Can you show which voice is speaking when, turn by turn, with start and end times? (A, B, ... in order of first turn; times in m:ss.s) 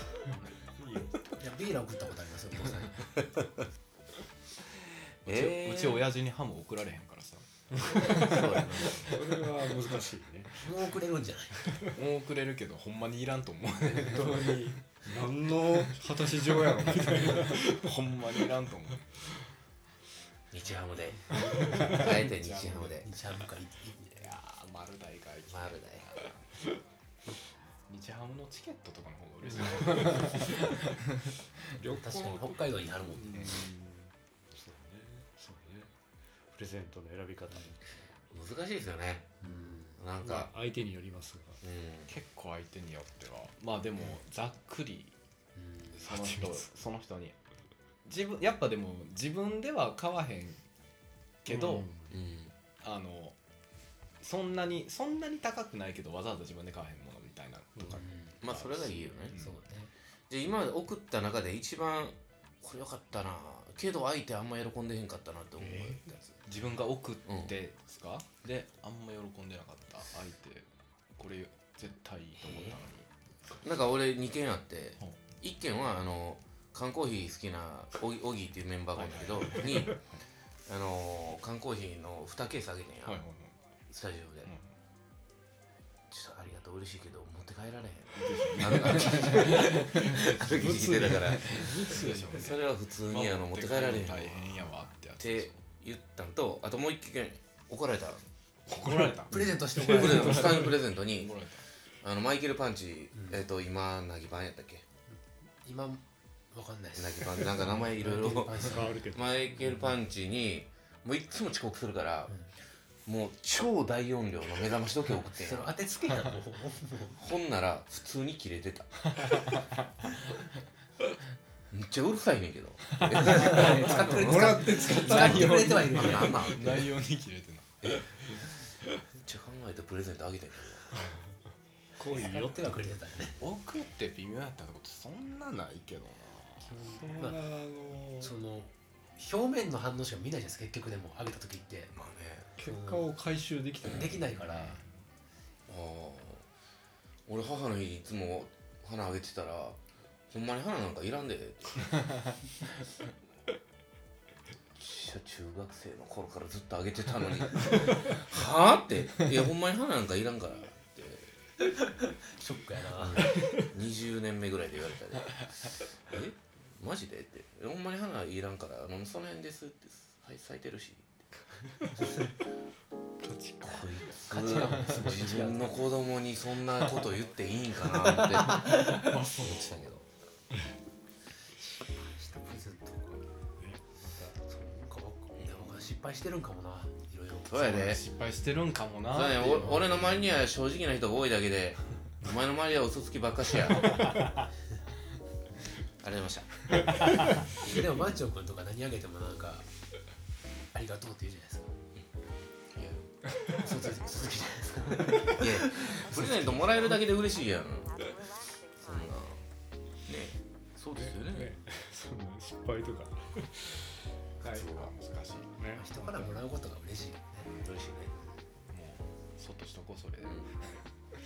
0:00.3-0:00.6 A
0:00.8-0:01.3 B
0:01.4-0:03.1 C
0:04.9-0:06.1 D
0:05.2-0:09.4 A
0:07.7-0:10.7 B
0:08.0-0:09.1 D
0:10.6-0:11.7 C
0:11.9-0:14.7 A
0:14.0-0:17.8 B
0:16.6-0:19.4 A
0:20.5-0:23.1 D
0:21.3-0:22.2 B
0:21.4-0:23.0 A
0:23.0-0:24.2 C
0:24.1-0:26.4 A
0:25.5-0:26.3 D
0:27.9-0:31.6 A
0:29.7-0:30.6 B
0:31.7-0:35.9 B
0:31.9-0:33.5 C
0:33.3-0:33.6 A
0:36.5-0:38.1 B
0:38.3-0:39.4 D
0:39.4-0:40.0 C
0:39.4-0:41.6 B
0:40.0-0:40.5 D
0:41.6-0:42.1 D
0:42.1-0:45.1 A
0:45.6-0:46.0 C
0:45.9-0:47.4 A
0:46.0-0:46.7 B
0:48.0-0:50.6 A
0:51.4-0:51.9 A
0:51.5-0:52.2 B
0:52.1-0:52.5 D
0:52.8-0:53.4 A
0:54.2-0:59.6 A
0:57.8-0:58.0 B
0:57.9-0:58.4 C
0:58.4-0:59.4 D
0:59.3-0:59.9 C
1:00.3-1:06.4 D
1:05.6-1:06.1 B
1:06.4-1:13.1 A
1:07.2-1:07.5 D
1:12.4-1:12.8 D
1:13.6-1:20.0 D
1:19.0-1:19.8 A
1:20.6-1:23.2 D
1:23.0-1:23.5 A
1:23.9-1:24.5 D
1:24.4-1:24.7 A
1:26.1-1:34.6 D
1:28.1-1:35.6 A
1:30.5-1:32.5 B
1:35.2-1:38.2 D
1:38.7-1:41.6 A
1:38.9-1:39.2 B
1:39.3-1:40.6 C
1:39.8-1:41.3 D
1:39.8-1:40.5 B
1:42.0-1:44.8 D
1:43.1-1:43.4 C
1:45.1-1:48.9 C
1:47.0-1:52.3 D
1:48.1-1:49.8 B
1:53.0-1:55.7 D
1:55.4-1:57.2 C
1:57.1-1:59.4 D
1:59.2-1:59.8 A
2:01.7-2:07.0 D
2:03.0-2:08.3 A
2:03.2-2:06.6 C
2:03.7-2:05.8 B
2:07.8-2:08.1 D
2:09.1-2:11.0 D
2:12.0-2:12.9 B
2:12.1-2:13.4 C
2:13.4-2:16.8 A
2:16.6-2:17.5 C
2:16.8-2:18.3 B
2:18.2-2:21.9 C
2:21.9-2:22.5 D
2:22.6-2:24.3 B
2:22.6-2:23.1 C
2:23.8-2:24.8 C
2:25.7-2:26.4 D
2:27.3-2:29.8 D
2:30.3-2:32.3 D
2:34.8-2:41.3 D
2:41.6-2:43.5 C
2:43.0-2:51.1 D
2:53.2-2:54.0 B
2:54.0-3:00.0 D
2:54.1-2:55.9 C
2:58.4-2:59.0 C
3:01.8-3:03.2 C
3:03.6-3:04.4 B
3:04.4-3:07.6 C
3:05.4-3:05.8 D
3:07.5-3:08.0 D
3:07.5-3:10.3 A
3:09.1-3:14.2 D
3:13.8-3:14.4 B
3:16.0-3:17.1 D
3:17.5-3:19.7 C
3:20.7-3:21.7 C
3:22.7-3:23.1 D
3:23.4-3:27.0 C
3:25.4-3:28.0 D
3:28.8-3:29.4 D
3:30.0-3:31.5 D
3:30.9-3:34.6 B
3:34.4-3:34.9 D
3:34.5-3:35.5 A
3:35.6-3:36.5 B
3:35.7-3:38.4 C
3:37.4-3:37.8 A
3:38.7-3:40.8 A
3:40.2-3:40.5 D